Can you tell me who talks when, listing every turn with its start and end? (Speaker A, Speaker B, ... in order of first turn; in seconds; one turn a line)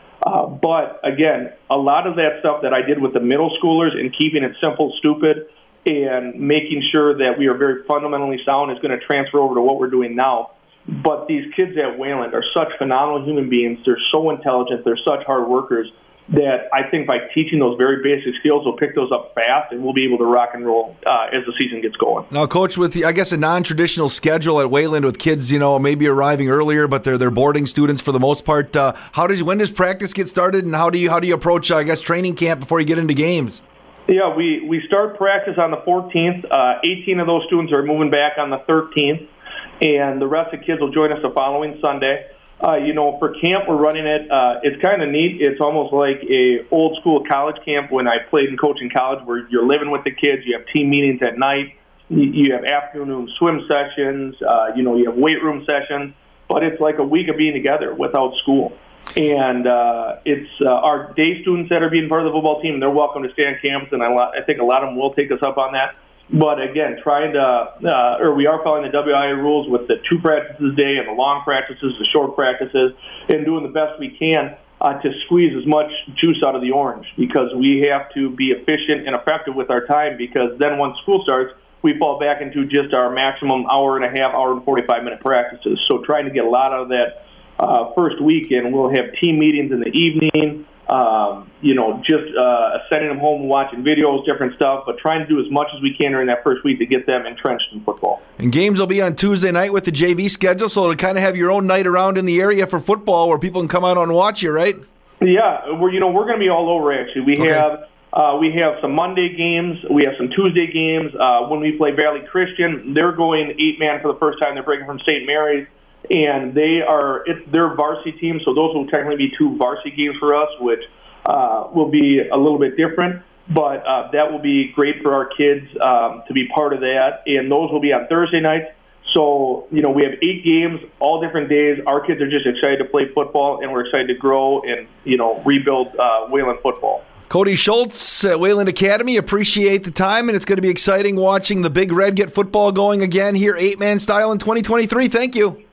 Speaker A: 0.2-22.3
Speaker B: 22.3-33.6
Speaker A: 34.1-39.3
Speaker A: 39.8-98.2
Speaker B: 98.4-104.8
Speaker A: 105.2-137.1
Speaker B: 107.4-107.6
Speaker B: 137.3-145.6